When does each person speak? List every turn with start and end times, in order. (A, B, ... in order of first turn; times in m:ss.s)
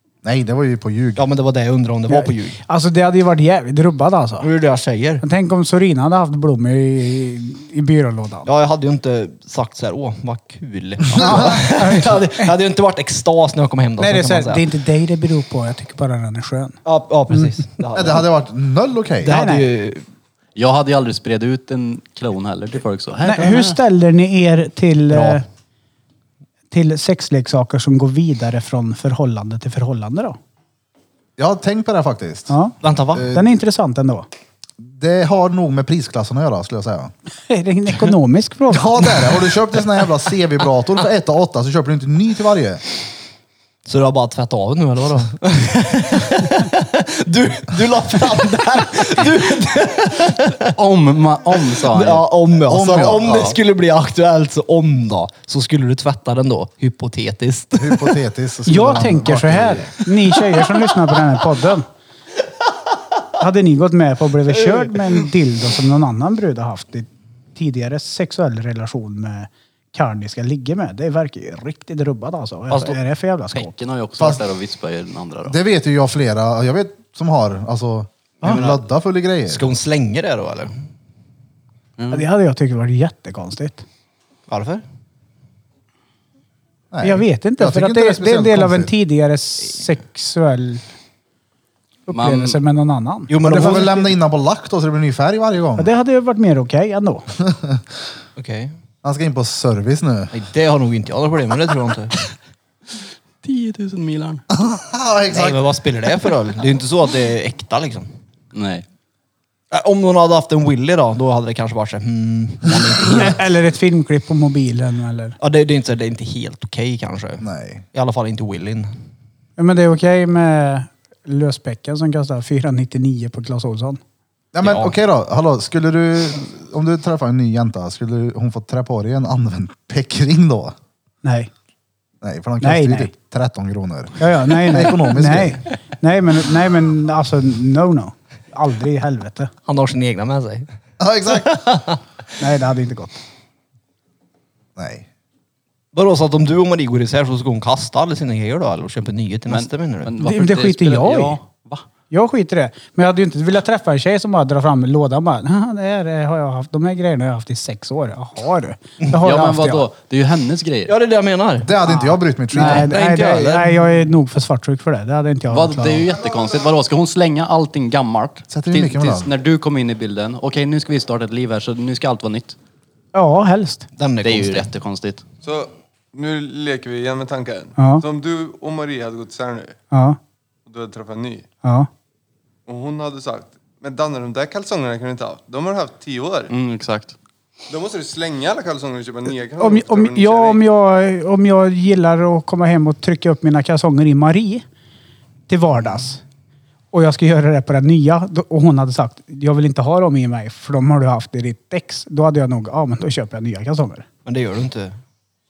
0:00.2-0:01.3 A
0:01.2-0:02.6 B
0:02.1-0:04.5 C
0:04.4-0:05.2 B
0:05.2-0:08.5 C
0:08.5-0:14.7 B
0:11.2-0:12.5 C
0:11.2-0:11.6 A
0:14.0-0:16.8 C
0:16.8-0:18.3 B
0:17.9-0:19.4 A
0:19.2-0:20.0 B
0:19.3-0:19.7 C
0:20.6-0:23.8 D
0:23.2-0:25.4 C
0:25.1-0:25.4 B
0:26.7-0:30.4 C
0:31.4-0:32.5 A
0:32.5-0:32.8 C
0:32.8-0:33.3 B
0:33.1-0:33.5 A
0:33.3-0:34.3 C
0:34.8-0:37.1 A
0:37.5-0:39.3 C
0:38.7-0:42.8 A
0:43.9-0:50.7 B
0:50.6-0:52.3 D
0:51.6-0:58.2 B
0:52.7-0:53.6 A
0:53.2-0:53.6 D
0:57.8-0:59.9 A
0:58.7-1:01.9 C
1:03.4-1:13.7 C
1:12.7-1:13.0 B
1:13.5-1:15.6 D
1:14.2-1:14.4 A
1:15.5-1:19.8 A
1:18.4-1:18.8 B
1:19.5-1:20.7 B
1:22.0-1:22.2 D
1:22.1-1:23.8 C
1:24.5-1:24.8 B
1:26.9-1:28.9 A
1:27.0-1:30.8 C
1:32.1-1:34.0 C
1:32.1-1:32.6 D
1:33.3-1:34.0 B
1:33.4-1:35.9 A
1:35.8-1:37.3 C
1:37.4-1:37.8 A
1:38.4-1:38.7 B
1:39.0-1:40.3 A
1:40.3-1:42.1 B
1:43.4-1:44.4 D
1:44.5-1:45.6 A
1:45.3-1:48.1 B
1:48.5-1:48.8 D
1:49.7-1:53.4 B
1:53.0-1:55.4 C
1:55.4-1:58.9 B
1:57.4-1:57.8 A
1:59.6-2:04.0 C
2:04.5-2:10.7 A
2:04.6-2:04.9 B
2:11.2-2:11.5 C
2:12.2-2:15.6 A
2:12.6-2:13.1 C
2:14.2-2:19.5 C
2:19.7-2:20.7 B
2:21.0-2:21.8 A
2:21.3-2:22.0 B
2:22.4-2:23.2 C
2:24.8-2:25.1 A
2:25.9-2:30.1 B
2:29.5-2:31.8 D
2:30.2-2:31.4 C
2:32.1-2:39.9 C
2:39.2-2:40.9 D
2:40.9-2:41.7 B
2:41.6-2:43.0 A
2:41.9-2:46.1 C
2:42.6-2:43.8 B
2:45.5-2:52.6 D
2:48.5-2:49.3 A
2:53.1-2:53.9 C
2:54.0-2:54.7 B
2:54.2-2:55.2 D
2:55.4-2:59.8 E
2:57.8-2:58.0 C
2:59.9-3:00.2 C
3:00.7-3:01.5 E
3:01.6-3:01.9 C
3:02.7-3:06.5 E
3:06.5-3:07.2 D
3:07.7-3:10.6 E
3:09.6-3:14.6 C
3:15.5-3:16.2 C
3:16.9-3:24.0 C
3:24.2-3:25.0 B